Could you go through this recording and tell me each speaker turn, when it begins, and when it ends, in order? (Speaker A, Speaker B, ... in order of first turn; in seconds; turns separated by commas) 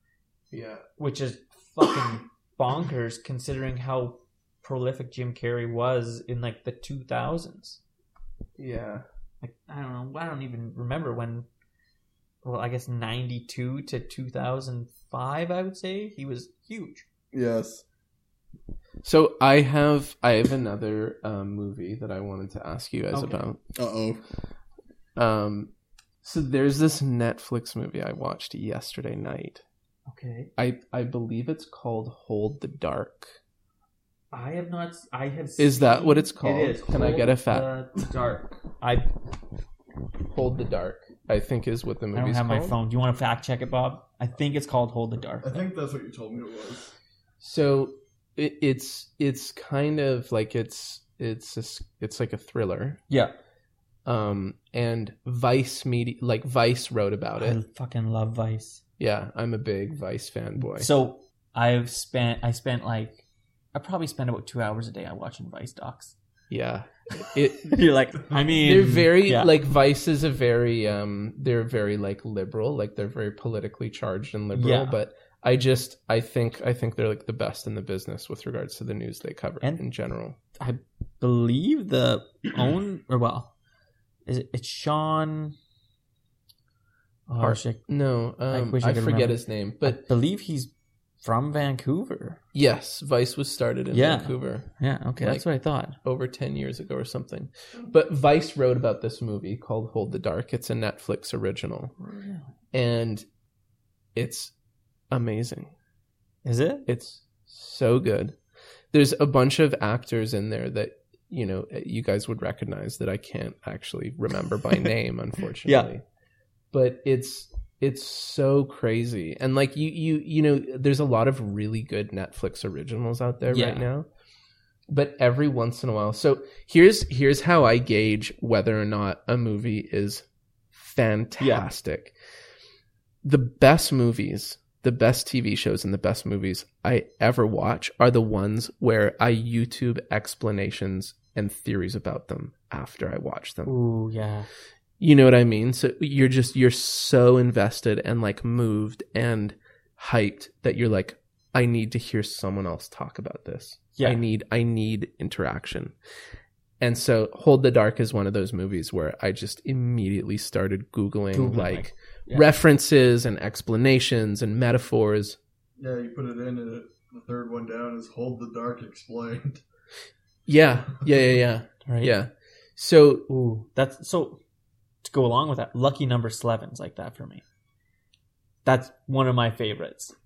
Speaker A: 0.5-0.8, Speaker B: 1.0-7.8, Speaker A: 8.6-9.0, Speaker B: 9.4-11.5, Speaker B: 12.4-17.0, Speaker C: 17.3-17.8, Speaker A: 19.0-23.6, Speaker B: 23.1-23.5, Speaker C: 23.7-24.2, Speaker A: 25.1-25.7, Speaker A: 26.2-29.6, Speaker B: 30.1-30.5, Speaker A: 30.6-33.3, Speaker B: 34.3-39.1, Speaker A: 35.6-37.7, Speaker A: 40.3-42.8, Speaker B: 42.1-45.6, Speaker C: 45.4-46.9, Speaker A: 47.4-53.0, Speaker A: 54.0-57.6, Speaker B: 57.4-58.8, Speaker A: 59.0-60.9, Speaker B: 60.6-63.2, Speaker B: 63.7-66.2, Speaker A: 66.5-67.8, Speaker B: 67.2-69.5, Speaker A: 68.6-80.4, Speaker B: 74.5-75.0, Speaker B: 80.6-83.5, Speaker B: 84.2-85.5, Speaker B: 87.3-87.8, Speaker A: 87.4-90.0, Speaker B: 88.5-92.4, Speaker A: 92.5-95.5, Speaker B: 93.9-96.0, Speaker A: 96.0-101.9, Speaker B: 102.0-102.5, Speaker A: 102.7-103.2, Speaker A: 104.1-104.5, Speaker A: 105.1-105.7, Speaker B: 106.4-106.8, Speaker A: 106.9-108.3, Speaker A: 108.9-116.0, Speaker B: 115.6-115.9, Speaker A: 116.7-124.1, Speaker B: 123.5-123.9, Speaker A: 124.9-132.1, Speaker B: 131.4-131.7, Speaker A: 133.2-143.7, Speaker B: 143.7-144.5, Speaker A: 145.0-155.9, Speaker B: 153.9-154.2, Speaker A: 156.8-165.4, Speaker B: 161.3-162.5, Speaker C: 165.8-169.6, Speaker A: 170.5-173.2, Speaker B: 171.8-172.1, Speaker B: 173.3-174.4, Speaker B: 175.0-177.4, Speaker B: 178.6-180.1